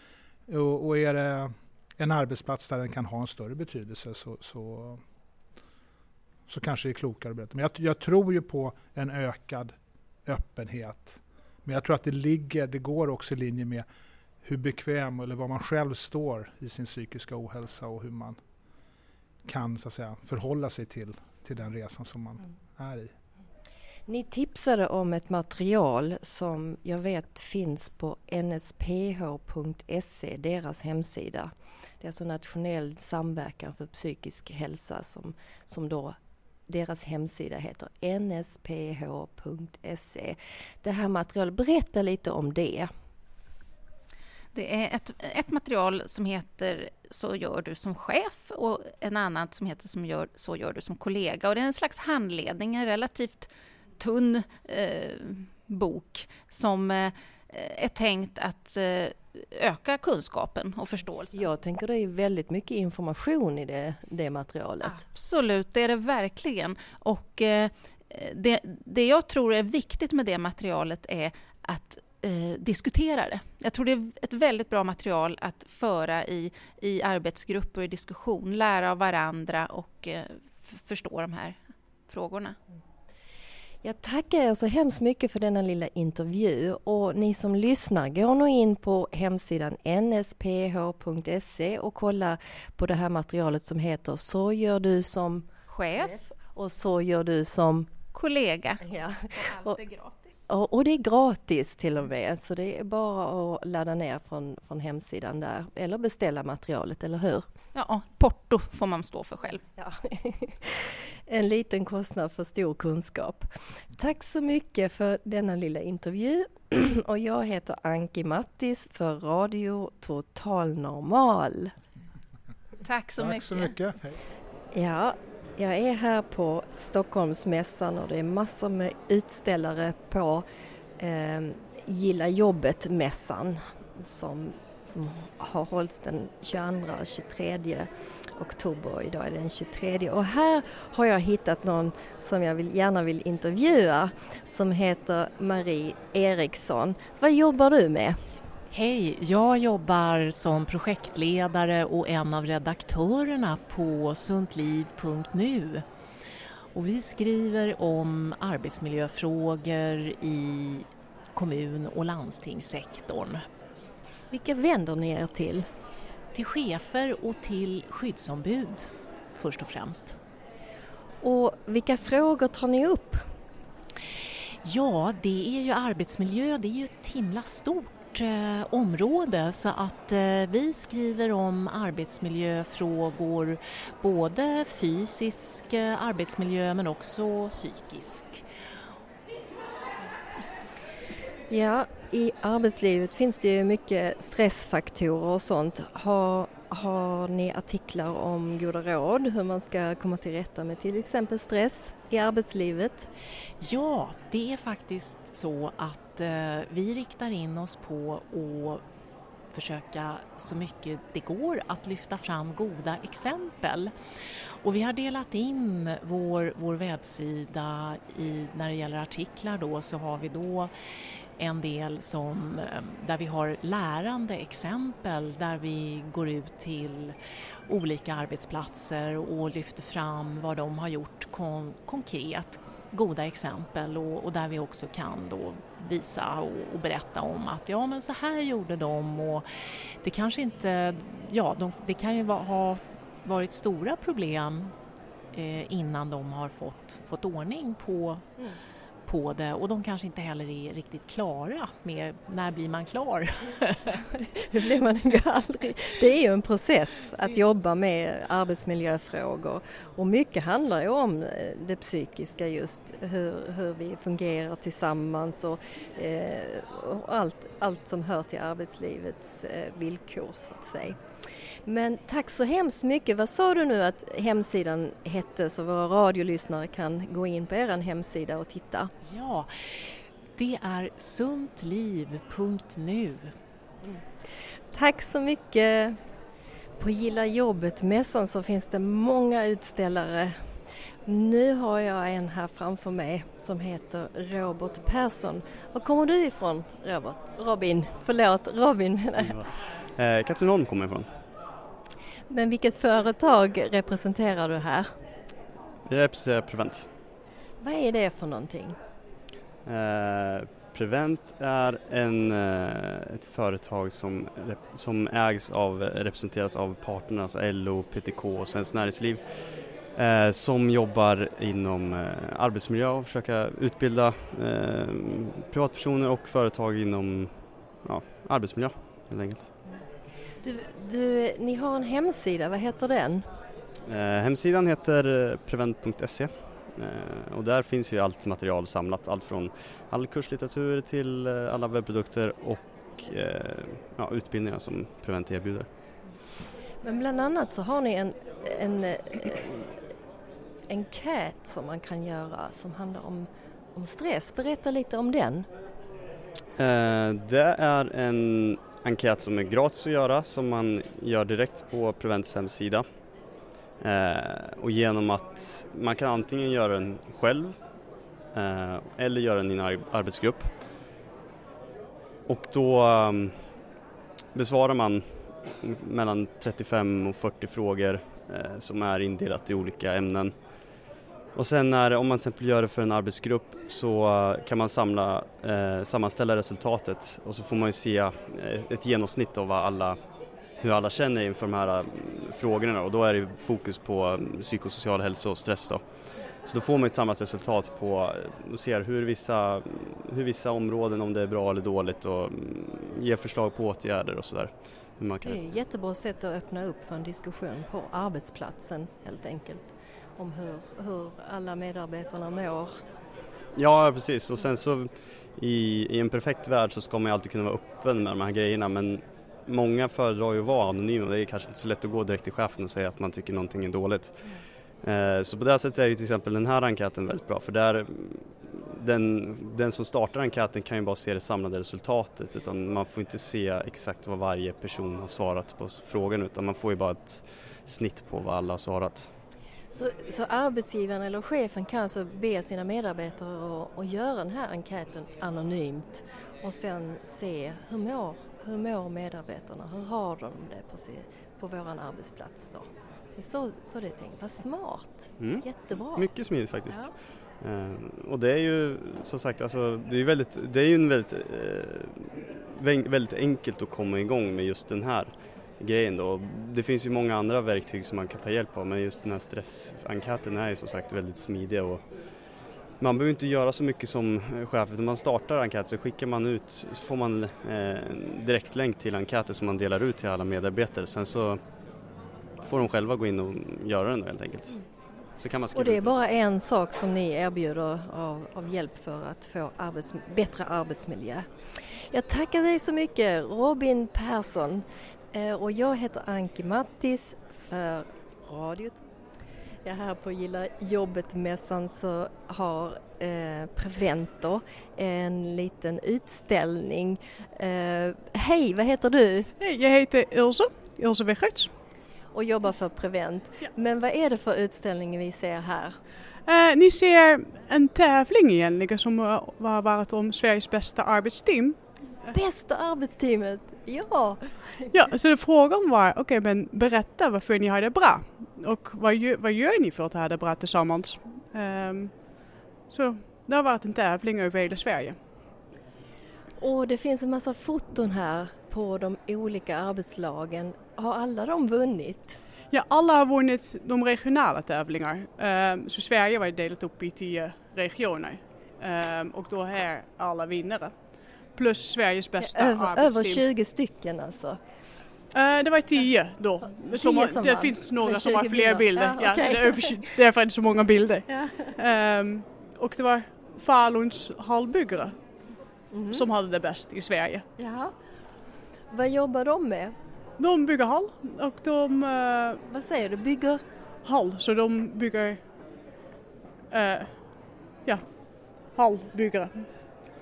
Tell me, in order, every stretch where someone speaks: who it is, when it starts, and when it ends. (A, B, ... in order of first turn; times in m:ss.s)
0:00.5-0:05.0 A
0:06.5-0:13.8 A
0:14.4-0:18.4 A
0:19.4-0:23.1 A
0:24.1-0:36.2 B
0:36.7-0:42.9 B
0:44.5-1:01.4 C
1:01.3-1:05.0 B
1:04.8-1:22.6 C
1:23.8-1:37.9 B
1:35.7-1:36.2 C
1:38.1-1:38.8 C
1:38.8-1:39.8 B
1:39.3-1:40.4 C
1:40.5-1:47.4 B
1:47.7-1:49.6 C
1:49.8-2:01.7 B
2:02.8-2:03.8 C
2:03.2-2:04.2 A
2:04.7-2:10.4 B
2:11.0-2:28.2 B
2:28.7-2:35.8 D
2:36.7-2:43.4 D
2:44.3-2:45.7 B
2:46.3-2:50.2 D
2:51.2-2:53.2 B
2:54.6-3:08.5 D
3:11.5-3:23.1 B
3:23.6-3:28.8 D
3:29.5-3:33.9 D
3:34.6-3:40.7 D
3:41.4-3:47.2 D
3:47.7-3:59.5 D
4:00.0-4:04.7 D
4:05.3-4:08.3 D
4:09.0-4:14.0 D
4:13.9-4:31.0 B
4:31.6-4:38.9 B
4:39.0-4:43.4 D
4:44.7-4:46.0 B
4:46.8-4:50.4 B
4:51.0-4:59.4 B
4:59.2-5:01.1 E
5:02.3-5:04.9 B
5:05.9-5:06.9 E
5:07.6-5:08.8 B
5:09.6-5:29.5 E
5:30.4-5:33.2 B
5:33.8-5:45.7 E
5:46.8-5:49.8 B
5:50.7-5:55.5 B
5:56.6-6:02.8 E
6:03.8-6:07.6 E
6:08.3-6:10.6 E
6:12.3-6:13.5 E
6:14.3-6:30.0 E
6:30.6-6:35.8 E
6:36.4-6:45.6 E
6:45.2-6:52.7 B
6:53.5-7:19.1 E
7:19.7-7:36.1 B
7:35.2-7:51.8 E
7:52.8-8:01.4 E
8:02.4-8:04.6 E
8:05.2-8:06.0 E
8:05.5-8:18.8 B
8:19.6-8:29.3 B
8:29.4-8:31.5 F
8:32.1-8:35.8 B
8:36.2-8:41.6 F
8:42.1-8:44.7 B
8:44.7-8:55.0 F
8:56.4-9:02.2 B
9:02.5-9:13.2 F
9:12.2-9:14.4 B
9:15.1-9:25.0 F
9:16.7-9:19.9 B
9:21.1-9:21.5 B
9:25.7-9:26.0 B
9:25.9-9:27.2 F
9:27.4-9:27.7 B
9:28.7-9:29.7 B
9:30.2-9:32.4 F
9:32.5-9:33.4 B
9:33.8-9:35.2 F
9:36.5-9:37.1 F
9:37.6-9:39.5 F